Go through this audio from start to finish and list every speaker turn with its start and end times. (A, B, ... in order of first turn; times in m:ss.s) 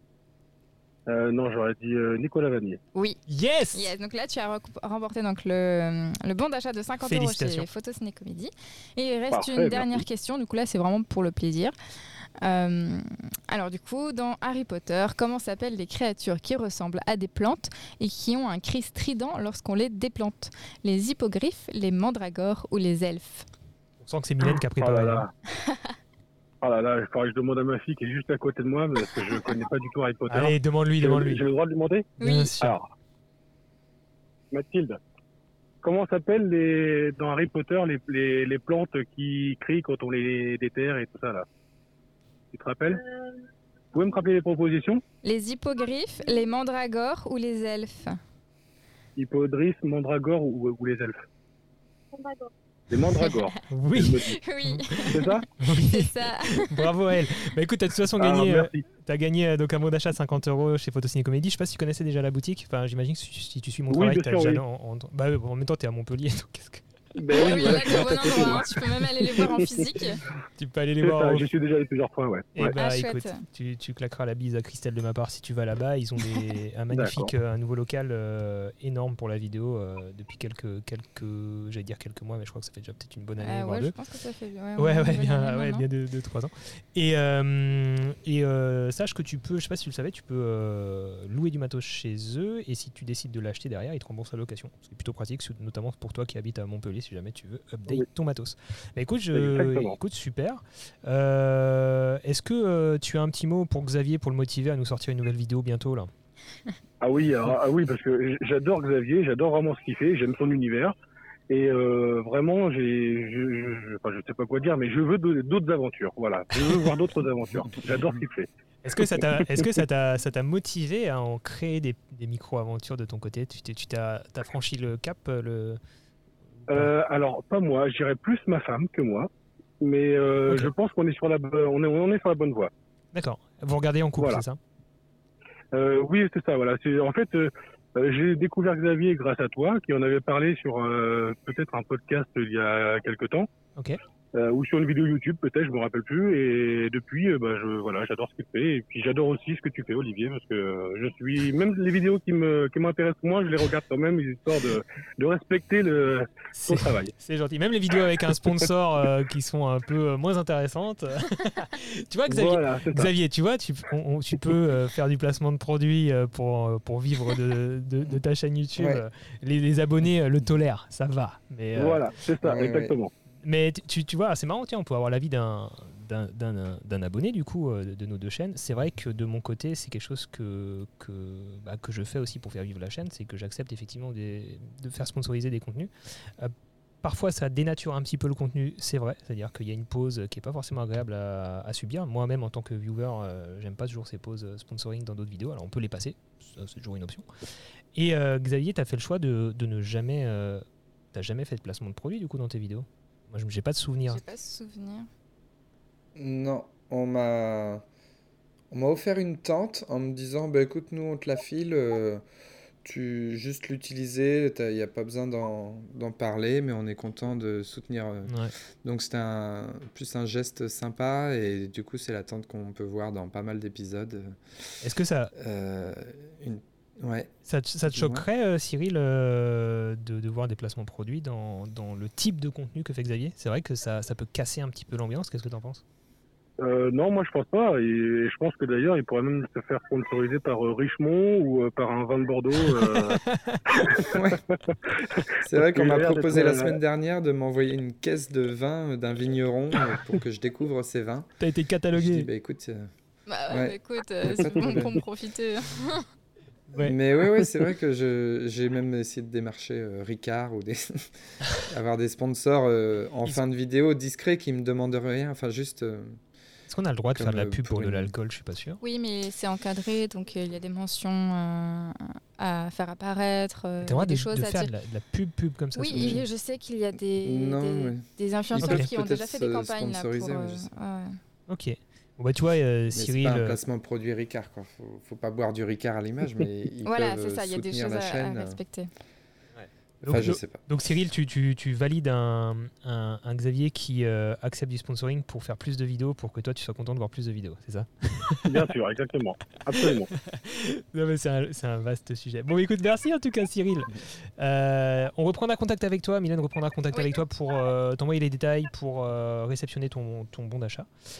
0:01.1-0:02.8 A
0:02.9-0:03.2 B
0:03.3-0:03.9 C
0:03.7-0:11.7 B
0:07.0-0:07.7 C
0:09.3-0:10.0 A
0:12.4-0:23.4 B
0:24.0-0:25.2 C
0:24.4-0:25.3 A
0:25.5-0:25.9 B
0:26.6-0:32.8 A
0:30.3-0:31.4 C
0:32.2-0:32.5 B
0:32.2-0:32.8 C
0:34.5-0:35.0 A
0:35.8-0:41.4 A
0:42.5-0:43.0 A
0:43.9-0:45.0 A
0:45.2-0:48.2 B
0:49.2-0:51.2 A
0:52.9-0:54.4 A
0:53.1-0:53.5 B
0:53.7-1:08.4 C
0:54.2-0:56.9 B
0:55.1-0:55.5 A
0:58.2-0:58.8 A
1:03.9-1:04.6 A
1:07.1-1:08.7 A
1:07.3-1:10.2 B
1:09.3-1:09.6 A
1:10.5-1:11.4 C
1:11.0-1:12.7 A
1:12.6-1:23.9 C
1:12.6-1:13.4 B
1:16.9-1:17.3 A
1:23.4-1:25.8 B
1:24.8-1:46.1 C
1:39.3-1:40.0 A
1:47.0-1:50.9 A
1:51.5-1:58.5 A
1:58.8-2:05.8 C
2:06.7-2:09.3 A
2:09.8-2:12.7 A
2:13.1-2:14.6 C
2:14.2-2:14.4 A
2:15.7-2:23.5 A
2:24.3-2:37.1 A
2:36.5-2:52.0 C
2:42.3-2:43.1 A
2:48.8-2:49.0 D
2:51.8-2:53.1 A
2:52.4-2:52.9 D
2:53.4-3:17.2 C
3:17.9-3:24.2 C
3:24.1-3:25.1 B
3:26.2-3:27.8 D
3:28.7-3:32.2 D
3:32.8-3:44.4 D
3:38.2-3:38.5 C
3:44.8-3:45.3 C
3:45.4-3:47.3 D
3:47.4-3:55.8 C
3:47.9-3:48.2 D
3:56.6-4:03.2 A
4:02.8-4:04.2 C
4:04.0-4:04.4 D
4:04.6-4:06.8 A
4:05.4-4:11.3 D
4:11.4-4:12.3 C
4:11.9-4:12.9 D
4:13.3-4:16.0 B
4:13.5-4:15.0 D
4:16.8-4:26.2 D
4:26.7-4:28.8 C
4:27.1-4:28.1 D
4:28.8-4:34.7 B
4:33.8-4:36.2 C
4:35.7-4:41.1 B
4:36.0-4:36.2 D
4:37.2-4:40.7 D
4:38.5-4:38.9 C
4:41.5-4:43.6 C
4:42.9-4:48.6 D
4:46.8-4:48.9 B
4:49.6-4:58.5 C
4:50.0-4:50.6 D
4:58.4-5:00.1 A
4:59.8-5:10.9 C